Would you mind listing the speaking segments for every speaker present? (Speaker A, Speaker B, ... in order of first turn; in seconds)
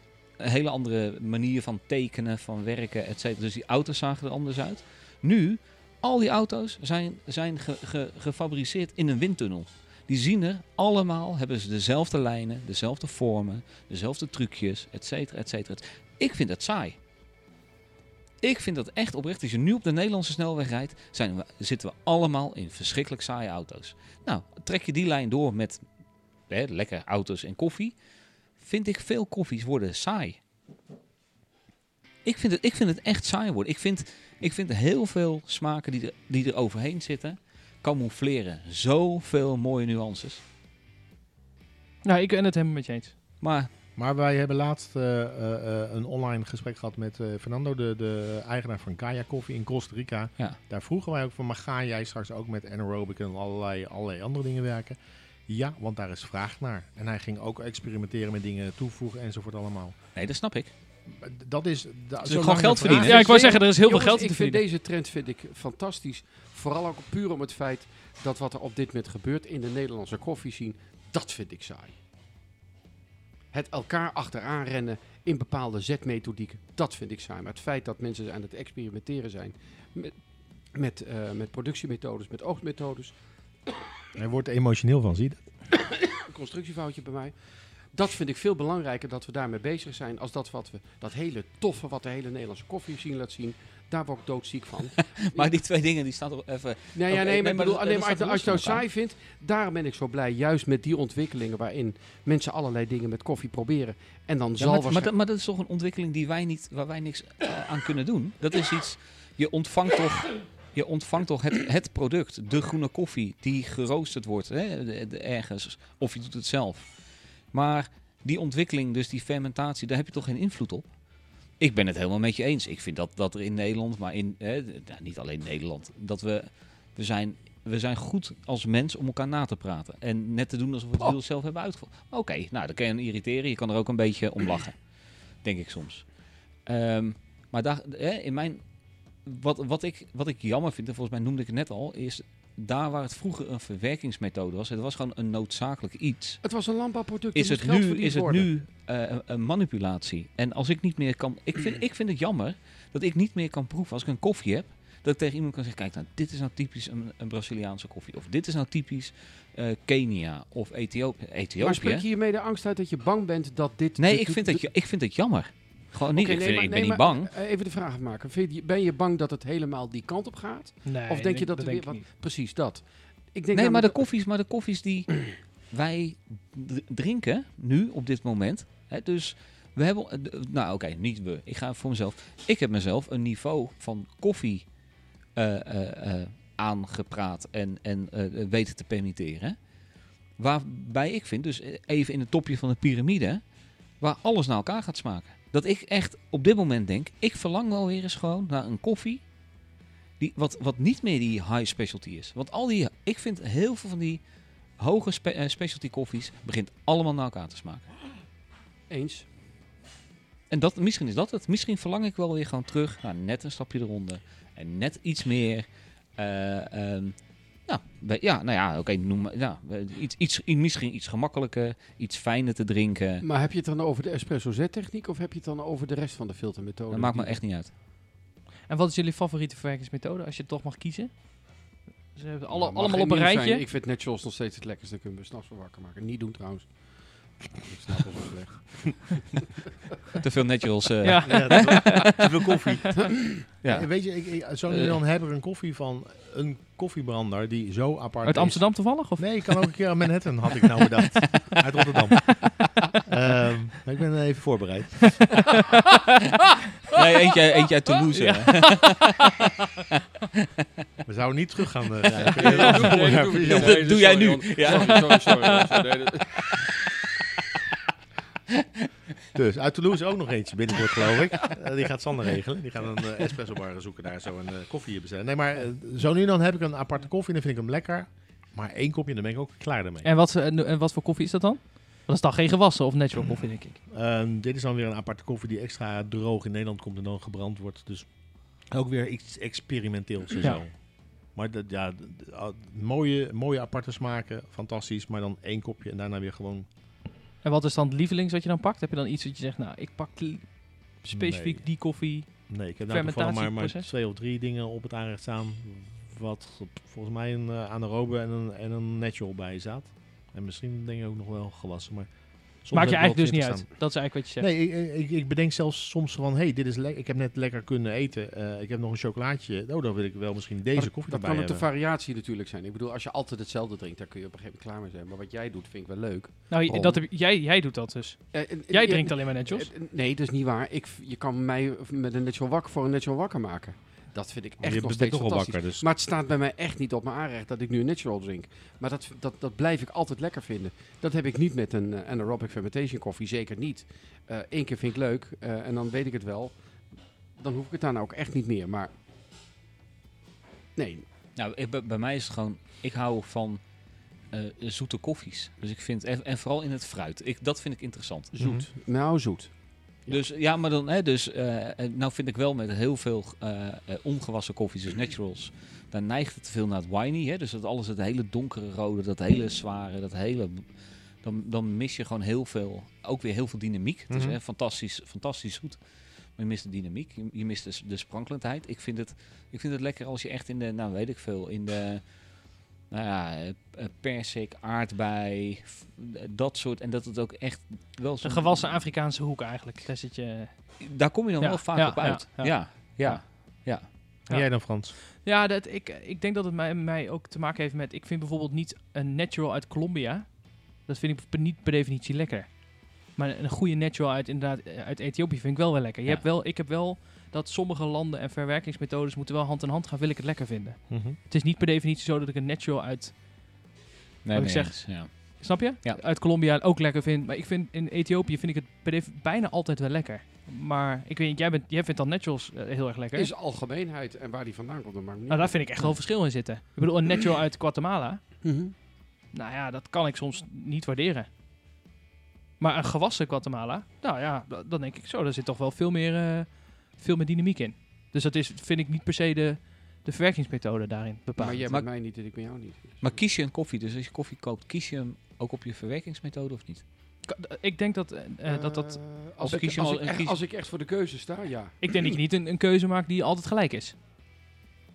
Speaker A: 0.4-17.0, 18.4-30.4, 32.2-40.4, 43.4-43.7, 60.1-60.7, 62.2-63.3, 95.3-98.8, 104.6-121.0, 121.6-146.6, 147.3-162.1, 164.0-167.3, 173.5-184.7, 185.3-189.6, 190.3-199.3, 200.2-204.2, 204.8-207.8, 210.5-223.2, 226.9-227.7, 240.2-242.3, 243.6-245.0, 256.9-259.5, 262.2-265.8, 351.4-353.6, 354.3-358.3, 360.1-388.9, 390.8-393.9, 414.2-416.0, 441.7-442.1, 443.0-446.8, 449.4-450.4
Speaker B: 42.0-43.2, 63.0-64.6, 170.8-172.0, 228.7-233.6, 241.0-242.1, 248.2-249.5, 280.0-283.8, 297.4-303.9, 312.7-314.4, 326.5-329.7, 388.2-413.7, 414.3-423.3, 425.3-428.5, 429.3-431.3, 432.6-441.6, 447.2-449.0, 451.8-453.9
Speaker C: 44.0-60.0, 61.1-63.2, 84.1-85.4, 241.2-255.4, 261.1-263.8, 269.3-280.1, 283.9-296.6, 301.1-321.6, 334.6-335.9, 358.4-358.7, 374.1-374.4, 394.3-394.9, 410.9-411.2
Speaker D: 63.0-72.0, 73.5-83.2, 86.1-95.5, 96.9-105.1, 146.4-148.5, 161.6-164.7, 166.1-174.1, 208.9-209.2, 223.2-227.4, 232.5-239.4, 262.3-266.7, 320.7-327.1, 328.3-346.8, 347.4-348.9, 350.7-351.0, 358.3-360.2, 423.1-426.6, 428.4-428.7, 441.4-443.2, 448.4-451.9